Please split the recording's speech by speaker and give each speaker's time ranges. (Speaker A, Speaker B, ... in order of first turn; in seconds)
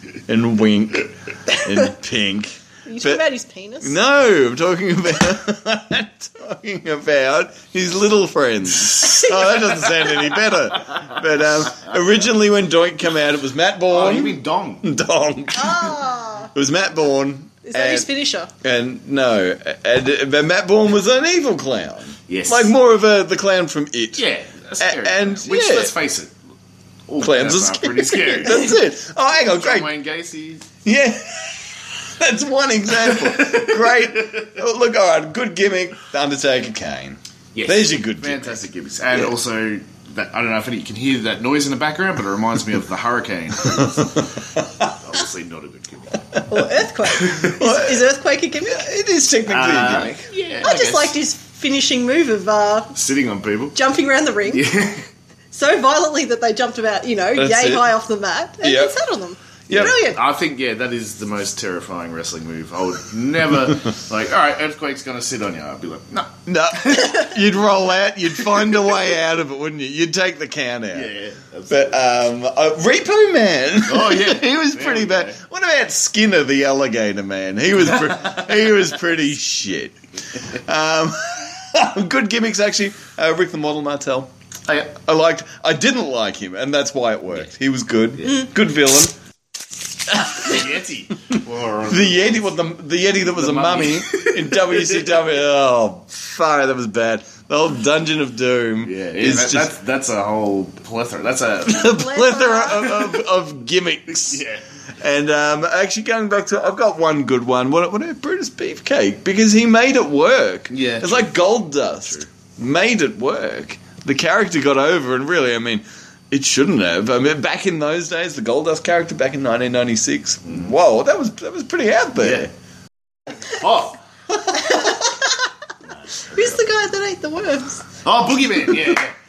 Speaker A: 0.3-3.2, 3.8-18.1, 18.6-24.2, 24.8-25.9, 27.2-29.9, 30.9-38.6, 43.8-44.9, 46.4-46.6, 47.4-48.1, 48.6-50.3, 57.4-57.9, 58.6-59.0, 66.5-71.1, 71.7-80.0, 80.5-84.3, 84.9-89.1, 90.1-90.6, 91.9-99.7, 101.6-104.4, 105.0-122.5, 124.5-124.9
Speaker B: 2.9-4.0, 9.0-9.9, 15.6-16.5, 17.6-18.5, 46.5-48.8, 50.6-52.9, 53.7-54.7, 55.5-60.2, 101.8-103.0, 124.5-125.3, 126.3-127.8
Speaker C: 13.9-14.9, 22.3-22.7, 24.2-26.3, 27.1-28.8, 29.3-30.7, 33.0-34.4, 37.5-44.1, 45.0-46.2, 47.1-47.5, 49.5-51.2, 53.0-53.8, 54.5-55.1, 59.7-67.3, 68.5-68.9, 70.9-71.9, 73.9-75.4, 90.3-92.4, 93.3-95.2, 98.8-101.9, 104.2-104.6, 110.7-111.3, 120.5-120.7, 122.2-122.5, 123.5-124.0, 126.1-126.6, 128.0-129.1